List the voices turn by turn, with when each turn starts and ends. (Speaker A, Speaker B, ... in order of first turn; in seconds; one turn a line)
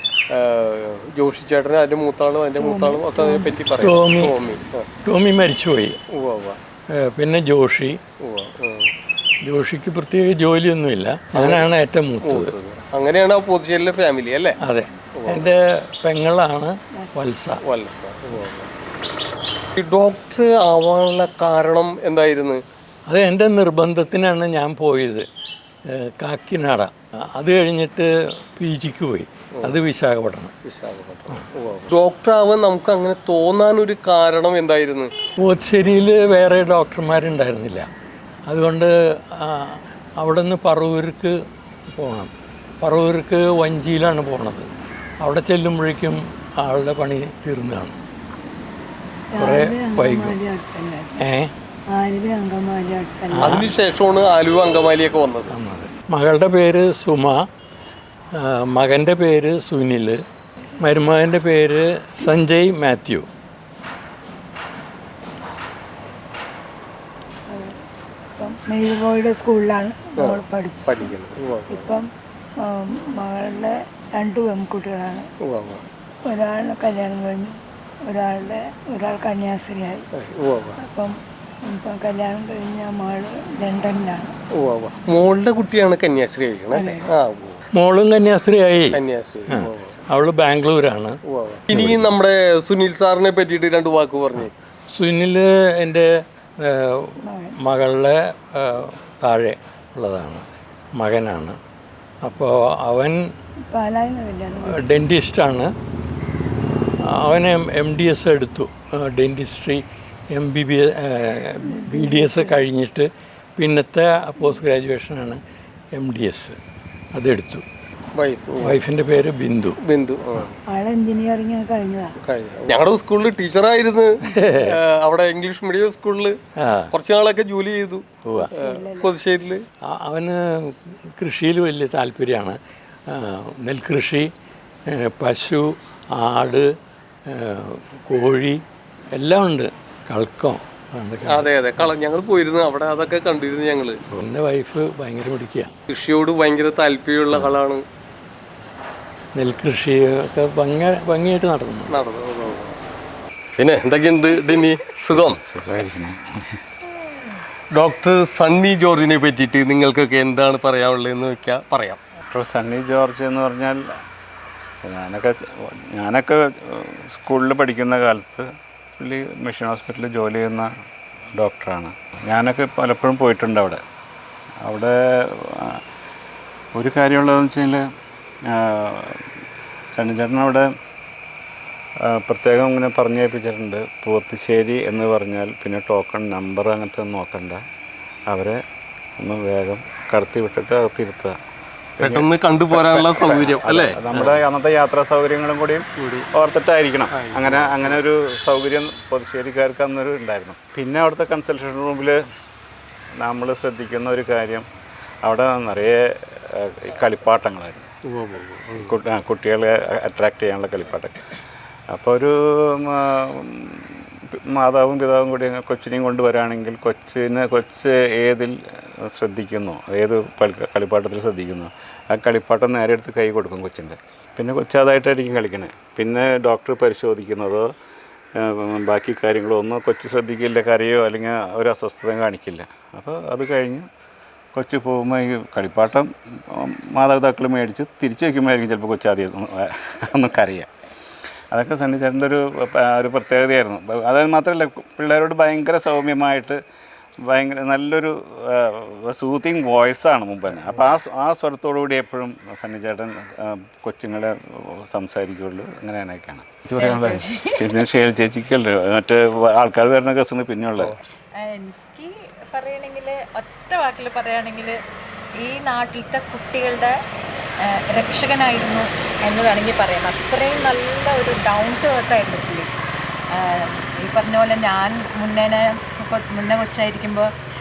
Speaker A: 0.3-4.9
Speaker B: 2.6-3.6
Speaker C: 3.8-4.4
Speaker C: 5.0-6.0
Speaker A: 6.1-6.6
Speaker C: 6.9-8.0
Speaker A: 8.2-8.9
Speaker C: 9.4-12.5
Speaker A: 11.3-11.7
Speaker A: 12.2-14.6
Speaker C: 14.6-17.6
Speaker A: 15.2-15.5
Speaker A: 17.6-18.7
Speaker A: 19.8-22.6
Speaker C: 23.1-25.3
Speaker C: 25.9-30.6
Speaker A: 30.6-35.1
Speaker C: 35.4-37.9
Speaker C: 38.5-41.4
Speaker C: 42.0-42.3
Speaker C: 42.8-44.7
Speaker C: 45.2-48.0
Speaker B: 49.3-51.1
Speaker C: 49.4-50.4
Speaker C: 51.2-51.5
Speaker B: 51.9-53.6
Speaker C: 53.3-53.7
Speaker A: 53.4-55.5
Speaker C: 55.5-57.4
Speaker C: 58.4-60.2
Speaker C: 60.8-63.3
Speaker B: 67.5-67.8
Speaker B: 68.4-71.2
Speaker A: 70.2-71.9
Speaker B: 71.7-72.1
Speaker B: 72.6-75.3
Speaker A: 75.4-75.8
Speaker B: 76.2-80.0
Speaker A: 80.1-80.8
Speaker B: 80.8-84.3
Speaker A: 84.6-87.6
Speaker B: 86.7-87.1
Speaker C: 87.8-89.0
Speaker A: 88.9-89.9
Speaker C: 89.6-91.2
Speaker A: 91.3-94.5
Speaker C: 91.7-92.1
Speaker C: 94.4-100.5
Speaker B: 97.2-97.5
Speaker C: 101.0-101.6
Speaker C: 102.2-103.2
Speaker B: 103.7-104.8
Speaker C: 104.7-105.7
Speaker C: 107.1-115.4
Speaker B: 111.7-112.6
Speaker C: 116.0-116.6
Speaker C: 117.2-117.6
Speaker A: 118.2-118.8
Speaker C: 118.6-119.8
Speaker A: 119.8-120.5
Speaker B: 120.7-122.2
Speaker A: 122.2-126.4
Speaker C: 124.3-124.8
Speaker C: 126.6-126.9
Speaker A: 126.9-129.6
Speaker C: 128.2-128.5
Speaker B: 128.3-129.1
Speaker C: 129.9-132.6
Speaker C: 133.1-134.3
Speaker C: 134.9-136.7
Speaker C: 137.3-138.6
Speaker C: 139.2-141.5
Speaker A: 141.3-144.0
Speaker C: 144.1-145.7
Speaker A: 145.9-147.8
Speaker C: 149.3-151.9
Speaker A: 151.9-152.7
Speaker A: 153.6-155.4
Speaker D: 155.1-156.6
Speaker A: 157.8-162.0
Speaker D: 162.3-163.8
Speaker D: 164.8-170.7
Speaker D: 171.4-173.8
Speaker D: 174.6-175.8
Speaker D: 176.8-177.8
Speaker D: 178.5-179.2
Speaker D: 179.9-180.7
Speaker D: 182.1-187.6
Speaker D: 188.3-188.6
Speaker D: 189.2-191.4
Speaker D: 192.0-202.2
Speaker A: 192.0-194.4
Speaker A: 196.0-196.3
Speaker A: 197.1-198.0
Speaker D: 203.2-204.7
Speaker D: 205.2-207.9
Speaker A: 208.1-208.9
Speaker D: 208.7-211.2
Speaker D: 211.9-218.5
Speaker D: 219.0-227.7
Speaker D: 228.4-233.9
Speaker D: 234.6-240.7
Speaker D: 241.5-246.6
Speaker D: 247.3-261.0
Speaker E: 256.8-257.6
Speaker E: 261.4-264.8
Speaker E: 265.4-266.9
Speaker E: 267.7-272.7
Speaker E: 273.3-277.3